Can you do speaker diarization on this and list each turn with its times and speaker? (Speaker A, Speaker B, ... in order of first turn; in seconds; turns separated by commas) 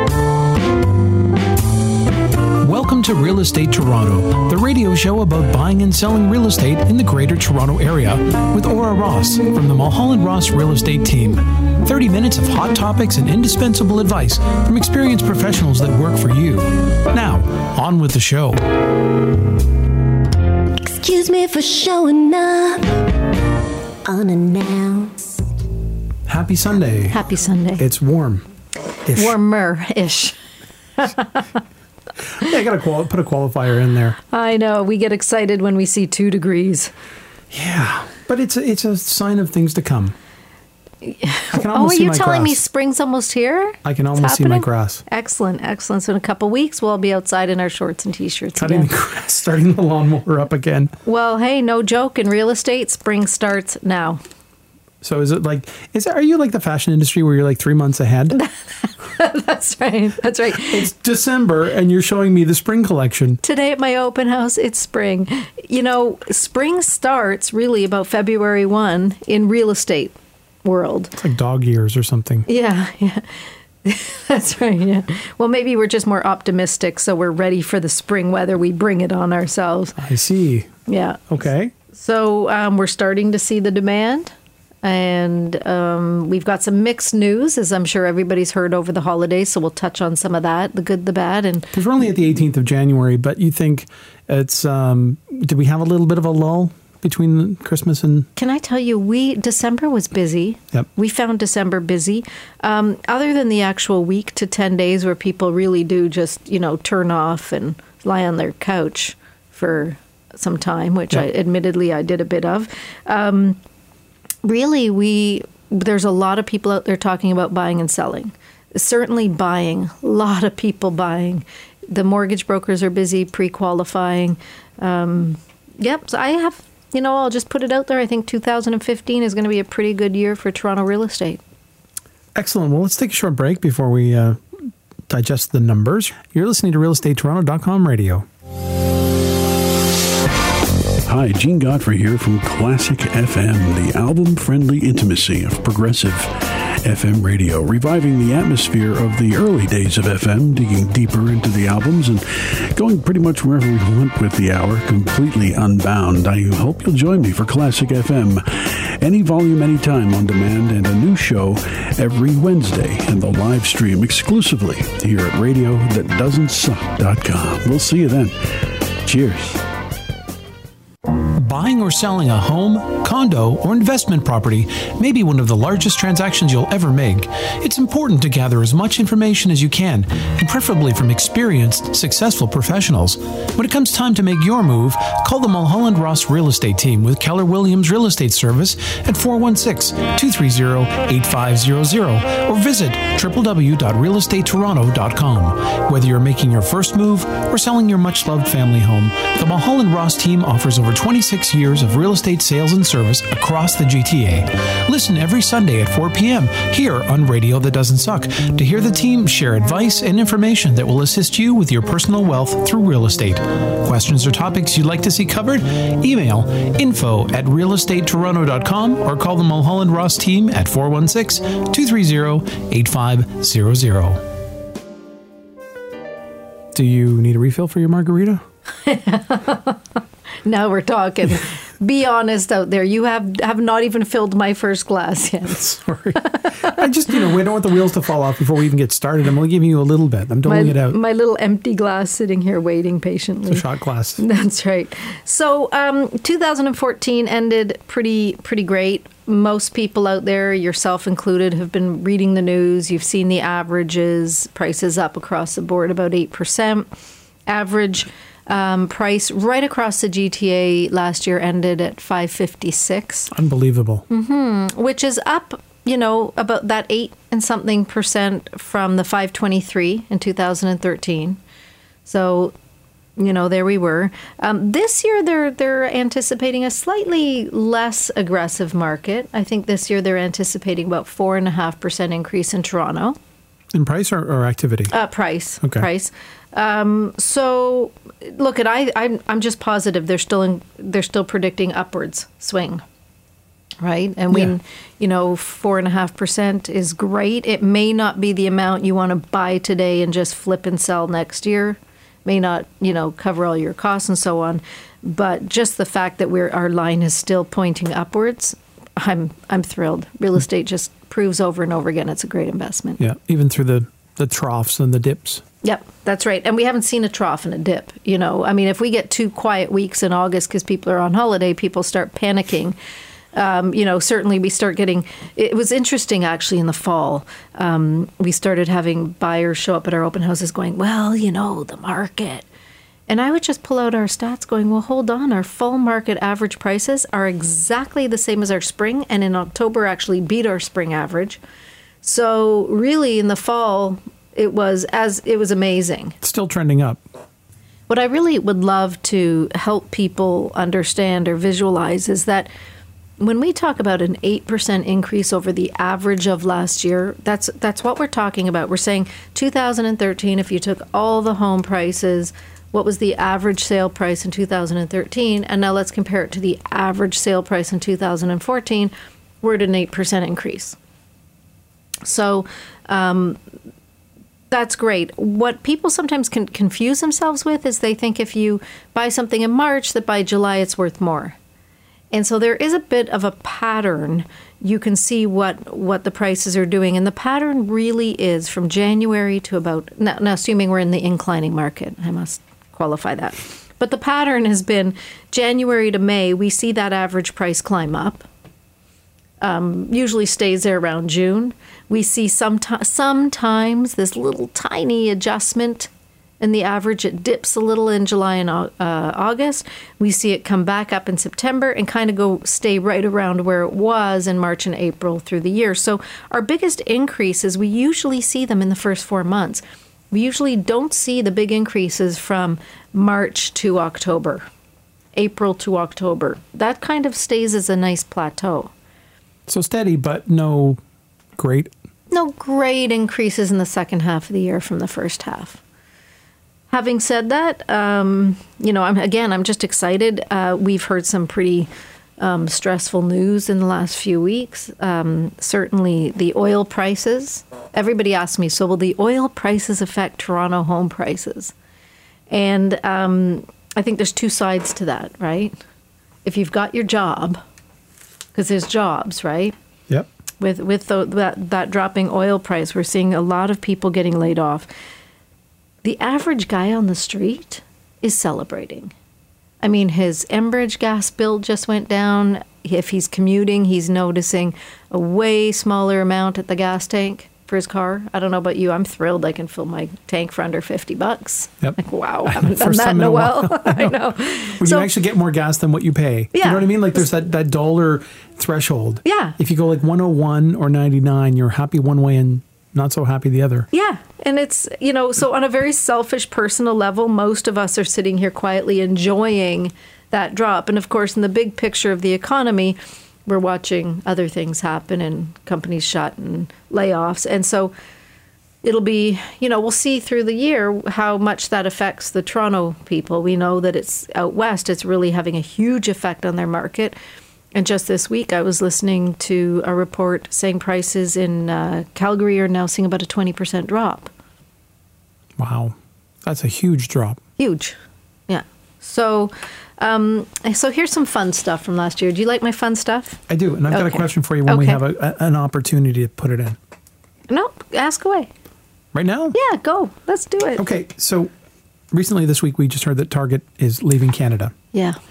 Speaker A: 2.6-18.6, Speaker B: 20.8-23.0, Speaker B: 24.0-25.4, Speaker A: 26.3-27.2, Speaker C: 27.1-27.8, Speaker A: 27.8-28.4, Speaker A: 29.0-29.4, Speaker C: 29.1-30.4, Speaker C: 31.0-31.6, Speaker A: 32.3-34.2, Speaker C: 34.3-36.9, Speaker A: 37.5-40.1, Speaker C: 41.0-48.9, Speaker A: 41.5-42.6, Speaker A: 43.8-45.0, Speaker A: 48.6-50.9, Speaker C: 51.0-54.2, Speaker A: 55.0-58.4, Speaker C: 58.3-60.9, Speaker A: 60.6-63.4, Speaker C: 63.4-70.1, Speaker C: 70.6-71.1, Speaker A: 71.2-72.5, Speaker C: 72.5-80.0, Speaker A: 80.0-80.7, Speaker C: 80.9-81.3, Speaker A: 81.3-81.7, Speaker C: 81.9-84.3, Speaker C: 84.8-91.7, Speaker A: 91.7-98.3, Speaker C: 98.3-113.6, Speaker C: 114.4-131.4, Speaker A: 132.3-138.3, Speaker D: 141.0-168.4, Speaker D: 169.0-169.6, Speaker A: 171.3-224.2, Speaker A: 226.7-228.4, Speaker C: 228.8-229.8, Speaker C: 230.4-235.6, Speaker A: 235.5-241.0, Speaker C: 236.2-236.8, Speaker C: 240.4-243.6, Speaker A: 243.5-244.2, Speaker C: 244.2-256.9, Speaker C: 257.5-263.3, Speaker A: 263.3-264.0, Speaker C: 264.1-271.4, Speaker C: 272.1-272.5, Speaker C: 273.2-283.2, Speaker A: 283.7-284.9, Speaker C: 284.9-292.8, Speaker C: 293.8-313.0, Speaker A: 313.0-315.4, Speaker C: 315.6-322.8, Speaker C: 323.3-332.4, Speaker C: 333.1-341.4, Speaker C: 342.0-346.1, Speaker A: 346.2-347.0, Speaker C: 347.9-352.5, Speaker C: 353.2-370.8, Speaker C: 372.0-373.4, Speaker C: 374.5-381.4, Speaker C: 382.1-398.2, Speaker C: 399.4-405.9, Speaker C: 406.4-424.4, Speaker C: 425.1-428.7, Speaker A: 429.5-430.8, Speaker A: 431.4-431.7, Speaker C: 432.1-435.6, Speaker C: 436.7-451.5, Speaker C: 452.3-455.5, Speaker C: 456.2-457.4, Speaker C: 458.3-459.5, Speaker C: 460.4-464.7, Speaker C: 465.8-468.9, Speaker C: 469.6-484.9, Speaker A: 481.6-483.9, Speaker A: 484.6-493.7, Speaker C: 486.3-487.0, Speaker C: 489.0-489.4, Speaker C: 493.7-507.7, Speaker C: 508.6-517.0, Speaker C: 517.5-524.1, Speaker A: 525.4-527.2, Speaker C: 527.4-527.8, Speaker C: 528.3-534.8, Speaker A: 533.3-536.6, Speaker C: 537.3-538.3, Speaker A: 538.9-539.3, Speaker C: 539.3-540.6, Speaker A: 540.6-541.3, Speaker A: 541.9-544.5, Speaker C: 544.7-545.0